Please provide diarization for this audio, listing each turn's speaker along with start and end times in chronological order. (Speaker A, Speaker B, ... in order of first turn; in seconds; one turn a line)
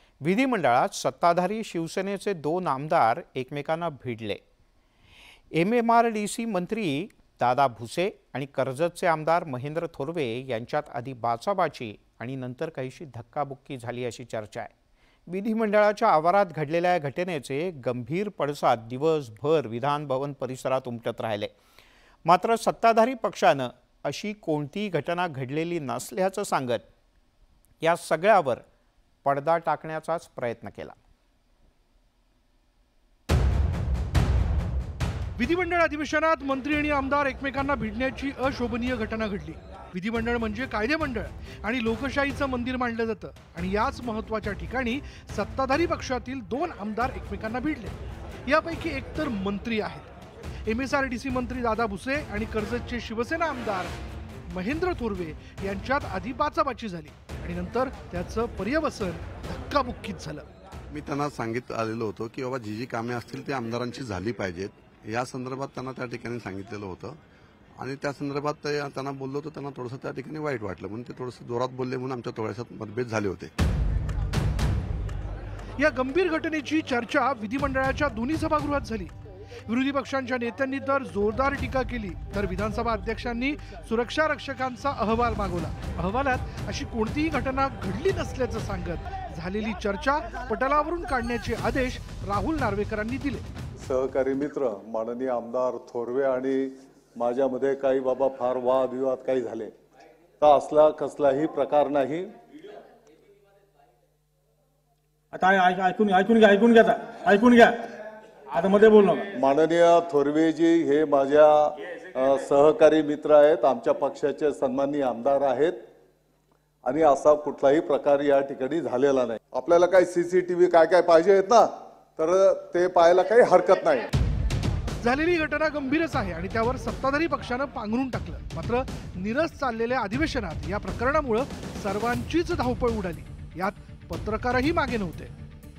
Speaker A: 0.2-4.4
Speaker A: 5.5-14.7
Speaker A: 15.3-21.5
Speaker A: 22.2-26.8
Speaker A: 27.8-28.6
Speaker A: 29.2-30.9
Speaker B: 35.4-48.0
Speaker B: 48.5-50.1
Speaker B: 50.7-54.0
Speaker B: 54.5-60.4
Speaker C: 60.9-67.2
Speaker C: 67.8-73.5
Speaker B: 75.8-79.1
Speaker B: 79.7-93.4
Speaker D: 93.8-99.7
Speaker D: 100.4-102.3
Speaker E: 105.3-109.3
Speaker D: 109.3-115.8
Speaker D: 116.8-124.1
Speaker B: 125.0-135.3